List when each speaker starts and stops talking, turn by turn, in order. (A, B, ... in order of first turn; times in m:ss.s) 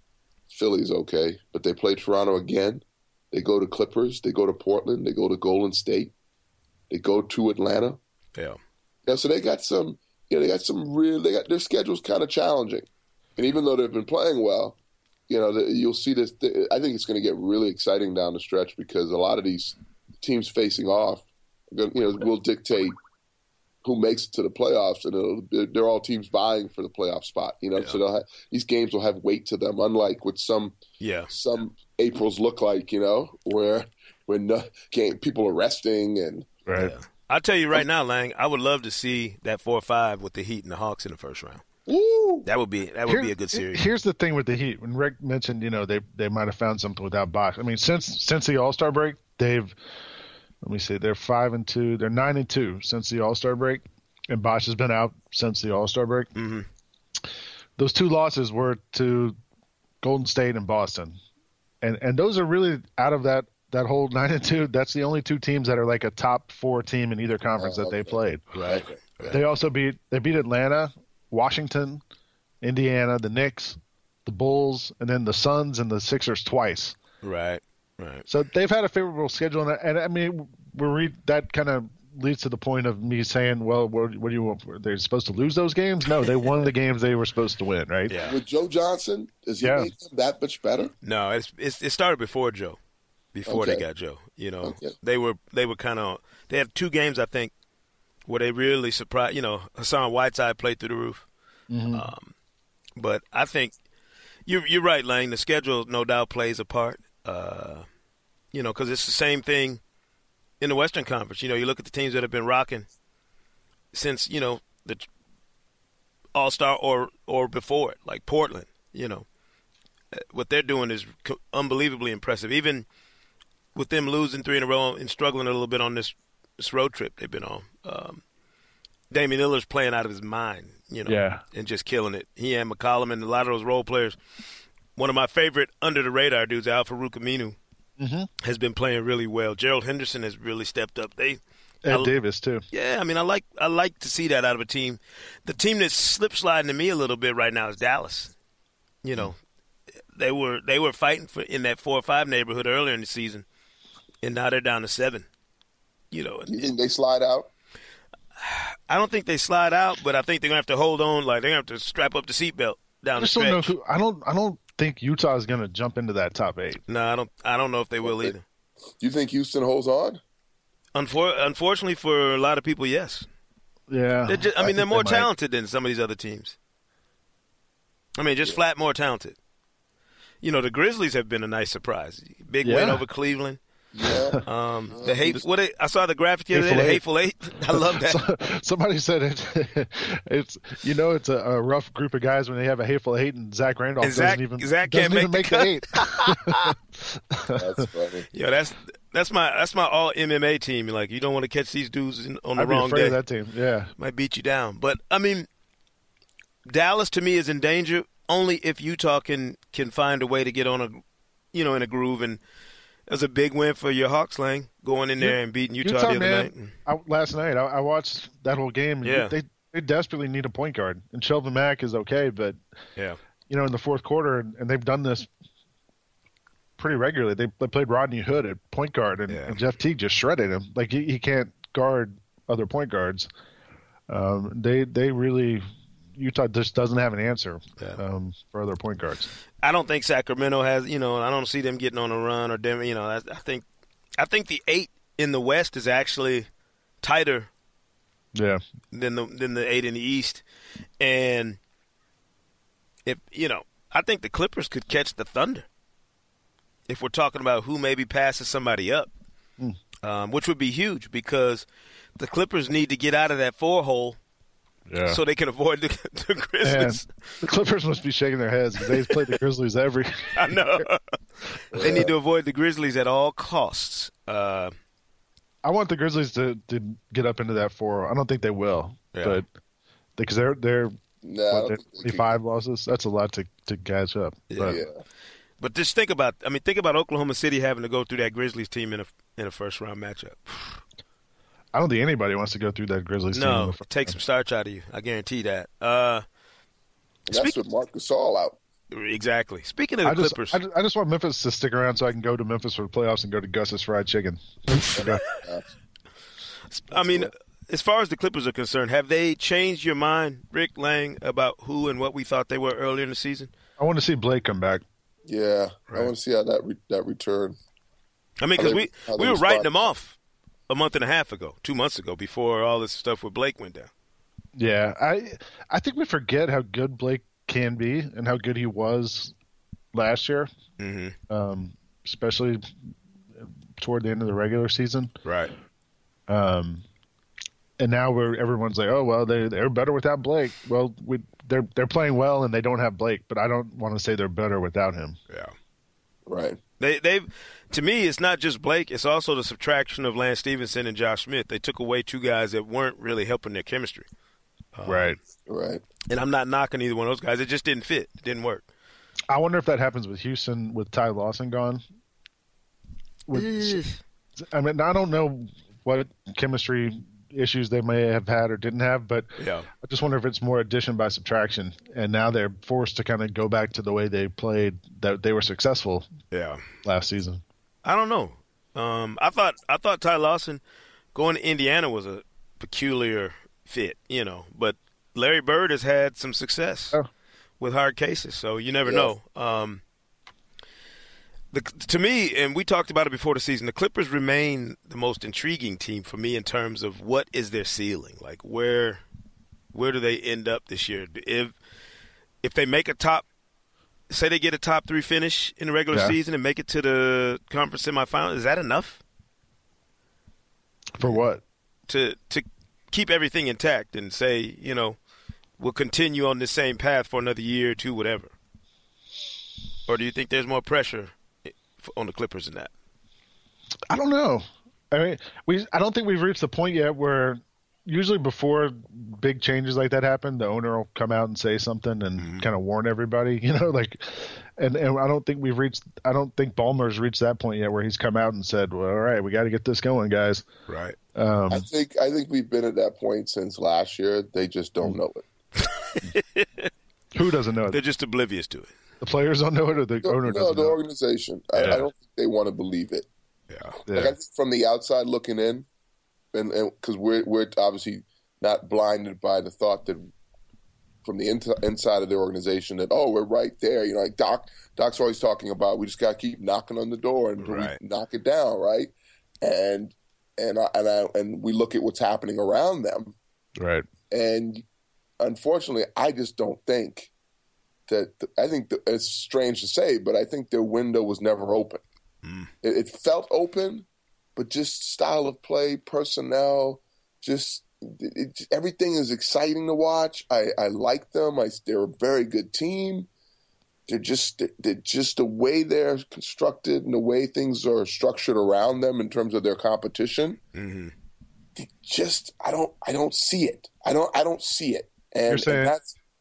0:00.5-0:06.1 A
0:06.9-0:08.0 A
0:09.0-0:14.8 A
0:15.3-0:23.0 A
0:23.8-0:30.8 A
0:31.0-0:31.3 B
0:31.3-0:36.5 A
0:36.6-0:36.9 C
0:36.8-0:41.6 B
0:41.9-0:42.4 A
0:42.4-0:43.8 B
0:43.0-0:49.8 C
0:50.6-0:56.3 C
0:56.3-0:56.6 B
0:57.8-0:59.4 C
1:00.0-1:01.2 C
1:01.8-1:08.4 C
1:07.6-1:08.9 A
1:08.5-1:09.4 B
1:09.2-1:12.0 C
1:12.6-1:17.0 C
1:17.2-1:18.2 B
1:18.3-1:28.2 C
1:28.1-1:28.4 B
1:28.2-1:30.9 A
1:29.6-1:29.9 C
1:31.0-1:32.8 B
1:33.3-1:37.5 B
1:33.5-1:33.8 A
1:34.6-1:34.9 A
1:38.3-1:41.2 B
1:41.7-1:42.1 C
1:41.9-1:42.3 B
1:43.0-1:43.7 B
1:44.4-1:47.8 B
1:48.5-1:49.8 B
1:50.6-1:52.9 B
1:53.9-1:55.0 B
1:56.3-1:59.2 B
2:00.1-2:02.8 B
2:03.7-2:08.2 B
2:09.1-2:14.2 B
2:11.0-2:11.4 C
2:15.0-2:17.6 B
2:18.0-2:18.3 C
2:18.4-2:22.1 B
2:21.8-2:22.6 C
2:22.7-2:28.3 B
2:29.0-2:29.4 B
2:30.1-2:33.4 B
2:34.2-2:35.2 B
2:36.1-2:36.7 B
2:36.5-2:37.5 A
2:38.4-2:43.7 B
2:43.2-2:46.8 C
2:46.9-2:48.4 B
2:48.0-2:48.3 A
2:49.0-2:50.2 A
2:50.9-2:53.3 B
2:53.9-2:55.3 C
2:54.3-2:56.6 B
2:58.2-2:59.4 B
3:00.4-3:03.6 B
3:02.6-3:03.0 C
3:03.9-3:05.4 A
3:04.1-3:04.4 C
3:04.4-3:08.2 B
3:06.5-3:17.8 C
3:14.0-3:16.6 B
3:17.5-3:18.2 A
3:18.3-3:23.2 B
3:22.6-3:23.9 C
3:24.0-3:25.5 B
3:26.7-3:31.0 B
3:31.5-3:32.4 B
3:33.1-3:36.7 B
3:35.2-3:42.6 C
3:39.0-3:39.3 B
3:43.5-3:45.3 C
3:46.8-3:53.3 C
3:49.3-3:49.6 B
3:54.1-3:59.3 C
3:59.6-4:03.6 B
4:04.2-4:06.5 B
4:07.0-4:07.5 B
4:08.3-4:08.6 C
4:08.9-4:10.4 B
4:11.0-4:11.6 B
4:13.0-4:15.6 B
4:16.9-4:19.1 B
4:20.0-4:21.6 B
4:22.2-4:24.2 B
4:24.9-4:25.2 C
4:25.0-4:27.4 B
4:26.6-4:30.8 C
4:30.3-4:34.7 B
4:31.7-4:32.1 A
4:35.6-4:39.5 C
4:39.1-4:39.4 B
4:40.2-4:44.8 C
4:41.2-4:42.3 A
4:44.5-4:44.8 B
4:44.6-4:45.0 A
4:45.6-4:50.8 B
4:51.7-4:54.1 C
4:53.3-4:56.2 B
4:57.3-4:57.6 B
4:57.3-4:58.6 A
4:58.9-5:00.6 B
5:00.0-5:05.2 C
5:04.9-5:05.7 A
5:06.7-5:13.5 B
5:13.8-5:14.8 C
5:15.3-5:17.6 A
5:18.4-5:20.2 B
5:18.6-5:19.9 A
5:20.7-5:23.9 B
5:24.6-5:29.3 C
5:29.9-5:30.5 C
5:30.8-5:31.1 B
5:31.3-5:32.6 C
5:33.4-5:35.1 C
5:35.2-5:35.5 B
5:36.3-5:36.8 C
5:37.8-5:45.2 C
5:46.3-5:46.6 A
5:46.8-5:54.1 B
5:54.7-5:55.2 B
5:54.8-5:55.2 C
5:55.5-5:55.8 A
5:56.1-5:58.6 B
5:59.3-6:01.8 C
6:03.3-6:03.8 C
6:03.3-6:04.0 B
6:04.4-6:09.3 C
6:09.4-6:09.7 B
6:09.8-6:16.1 C
6:16.3-6:16.6 B
6:16.8-6:17.4 C
6:17.8-6:20.6 B
6:21.1-6:27.0 B
6:27.6-6:29.8 B
6:28.8-6:29.1 A
6:31.5-6:39.0 B
6:39.7-6:41.5 B
6:42.4-6:43.2 B
6:44.1-6:49.0 B
6:45.9-6:46.2 C
6:51.0-6:51.4 C
6:51.9-6:55.0 B
6:55.6-6:58.3 B
6:59.9-7:02.7 B
7:03.9-7:20.4 C
7:12.2-7:12.5 B
7:20.7-7:21.0 B
7:21.1-7:21.7 C
7:21.5-7:25.2 A
7:25.6-7:26.7 B
7:27.1-7:27.8 C
7:27.7-7:28.7 B
7:29.0-7:30.8 C
7:30.0-7:33.1 A
7:31.6-7:31.8 C
7:33.5-7:33.8 B
7:33.9-7:34.1 C
7:33.9-7:35.6 A
7:36.3-7:40.1 A
7:41.0-7:53.2 A
7:47.4-7:47.8 B
7:53.6-7:53.8 C
7:54.1-7:54.6 A
7:55.2-7:57.1 A
7:57.9-8:01.8 A
8:02.2-8:02.5 B
8:02.6-8:13.1 A
8:13.9-8:20.4 A
8:20.5-8:20.9 B
8:21.6-8:25.9 A
8:25.3-8:25.8 C